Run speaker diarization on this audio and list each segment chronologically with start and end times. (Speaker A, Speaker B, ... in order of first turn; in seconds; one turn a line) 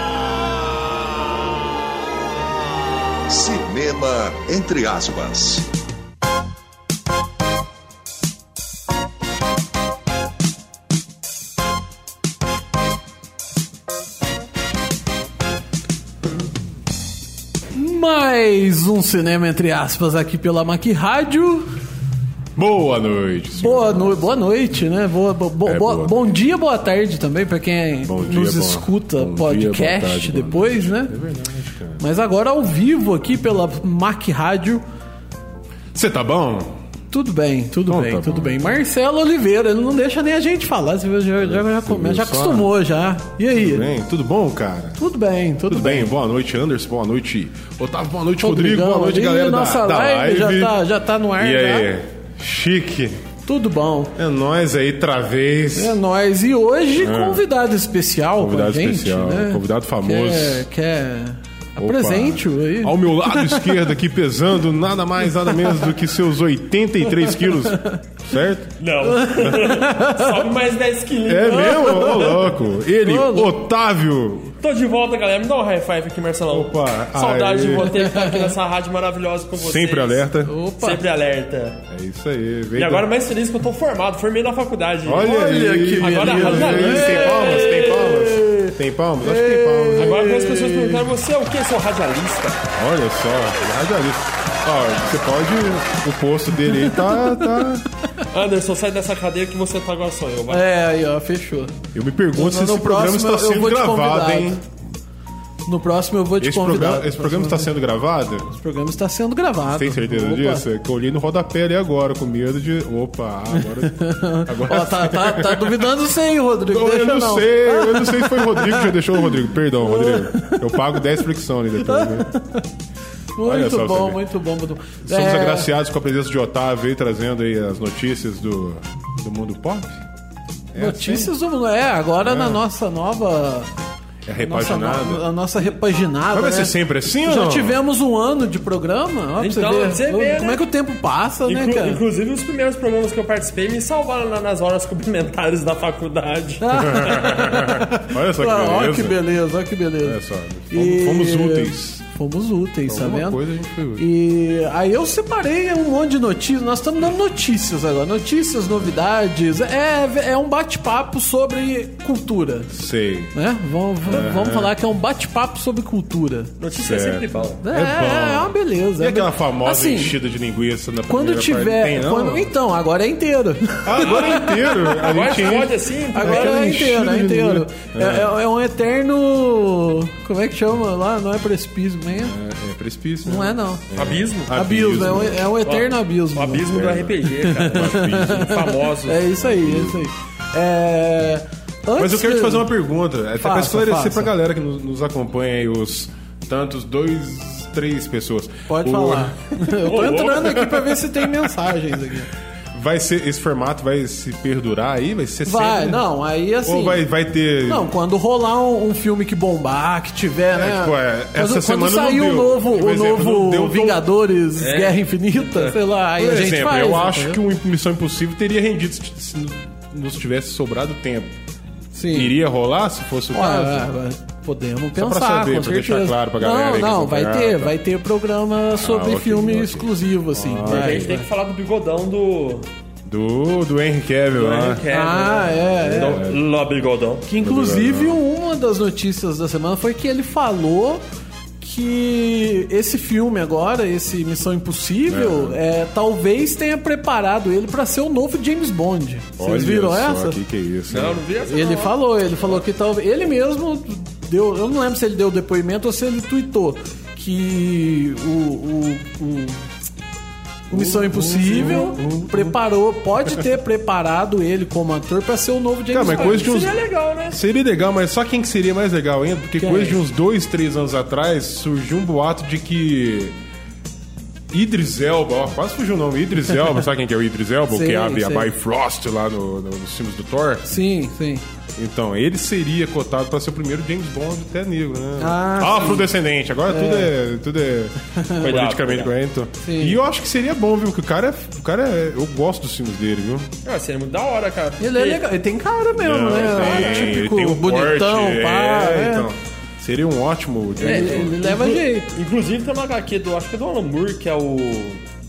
Speaker A: 3.3-5.7
Speaker B: 17.7-21.7
Speaker C: 22.6-24.3
Speaker B: 23.6-31.1
Speaker C: 25.6-26.3
Speaker C: 28.0-32.0
Speaker B: 32.0-34.8
Speaker C: 35.9-36.7
Speaker B: 37.1-43.9
Speaker C: 37.9-38.7
Speaker C: 41.4-42.7
Speaker C: 43.5-45.0
Speaker B: 45.0-46.1
Speaker C: 45.7-50.8
Speaker B: 48.4-51.9
Speaker C: 51.4-53.2
Speaker B: 53.5-54.1
Speaker C: 54.2-56.0
Speaker B: 55.7-63.8
Speaker C: 57.0-57.4
Speaker C: 58.4-60.6
Speaker C: 61.8-68.7
Speaker B: 65.5-65.9
Speaker B: 67.2-68.0
Speaker D: 68.8-72.3
Speaker B: 69.0-70.4
Speaker C: 71.2-74.5
Speaker B: 71.6-72.4
Speaker B: 73.0-73.5
Speaker D: 74.6-81.8
Speaker C: 76.5-77.9
Speaker B: 77.7-78.5
Speaker C: 79.5-80.5
Speaker B: 80.4-81.0
Speaker C: 81.9-83.1
Speaker D: 82.8-88.2
Speaker C: 85.0-90.2
Speaker B: 85.2-91.0
Speaker D: 90.0-92.6
Speaker C: 92.7-97.9
Speaker B: 96.7-97.5
Speaker D: 98.3-100.7
Speaker B: 100.5-101.7
Speaker C: 101.9-104.6
Speaker B: 102.3-104.6
Speaker B: 105.7-107.7
Speaker C: 106.4-108.5
Speaker B: 108.5-110.6
Speaker C: 109.7-115.9
Speaker B: 113.6-121.0
Speaker C: 116.7-122.3
Speaker B: 121.8-122.6
Speaker B: 123.3-125.7
Speaker C: 123.4-124.2
Speaker C: 125.0-130.0
Speaker C: 130.7-131.3
Speaker B: 130.8-133.7
Speaker C: 132.2-132.6
Speaker C: 134.2-135.7
Speaker B: 134.4-142.0
Speaker C: 136.3-137.8
Speaker D: 139.4-140.7
Speaker D: 141.4-147.3
Speaker B: 146.6-150.2
Speaker C: 146.8-149.2
Speaker C: 150.0-151.9
Speaker B: 150.7-153.4
Speaker C: 152.9-154.1
Speaker B: 153.9-162.7
Speaker C: 162.7-163.3
Speaker B: 163.3-166.5
Speaker C: 164.0-164.7
Speaker D: 166.6-167.6
Speaker C: 166.8-172.5
Speaker B: 167.6-170.1
Speaker B: 171.1-182.3
Speaker C: 173.8-178.3
Speaker D: 174.1-176.7
Speaker C: 182.1-185.6
Speaker B: 183.2-183.8
Speaker D: 183.9-184.5
Speaker B: 184.5-186.7
Speaker D: 185.6-189.3
Speaker C: 186.7-188.7
Speaker B: 187.4-192.7
Speaker C: 189.2-190.1
Speaker C: 192.0-199.4
Speaker B: 193.4-194.3
Speaker B: 198.7-202.3
Speaker D: 199.8-200.6
Speaker C: 200.4-201.4
Speaker C: 202.7-206.0
Speaker B: 205.4-207.0
Speaker C: 206.6-207.9
Speaker B: 207.6-217.4
Speaker C: 210.5-214.1
Speaker D: 214.6-215.8
Speaker C: 216.2-221.3
Speaker B: 221.9-222.3
Speaker C: 222.1-223.9
Speaker B: 223.3-231.2
Speaker C: 224.9-227.8
Speaker C: 228.7-231.1
Speaker D: 230.7-232.7
Speaker C: 233.1-234.9
Speaker D: 234.3-237.2
Speaker B: 234.9-236.2
Speaker C: 235.8-236.4
Speaker B: 237.3-241.0
Speaker C: 237.4-238.2
Speaker B: 241.6-250.4
Speaker C: 245.1-245.6
Speaker C: 249.4-251.2
Speaker D: 250.9-252.5
Speaker B: 251.5-259.6
Speaker B: 260.7-266.5
Speaker C: 260.7-262.6
Speaker C: 265.9-266.8
Speaker D: 266.1-267.4
Speaker C: 267.3-273.3
Speaker B: 269.6-270.0
Speaker C: 274.5-280.7
Speaker B: 277.7-278.5
Speaker B: 280.7-281.4
Speaker C: 281.7-293.5
Speaker B: 285.2-286.1
Speaker B: 286.7-287.1
Speaker B: 288.1-288.5
Speaker D: 288.4-289.1
Speaker B: 289.6-290.0
Speaker D: 293.6-295.3
Speaker B: 294.8-299.3
Speaker C: 295.9-301.3
Speaker D: 296.5-297.1
Speaker B: 300.8-302.1
Speaker D: 300.8-305.0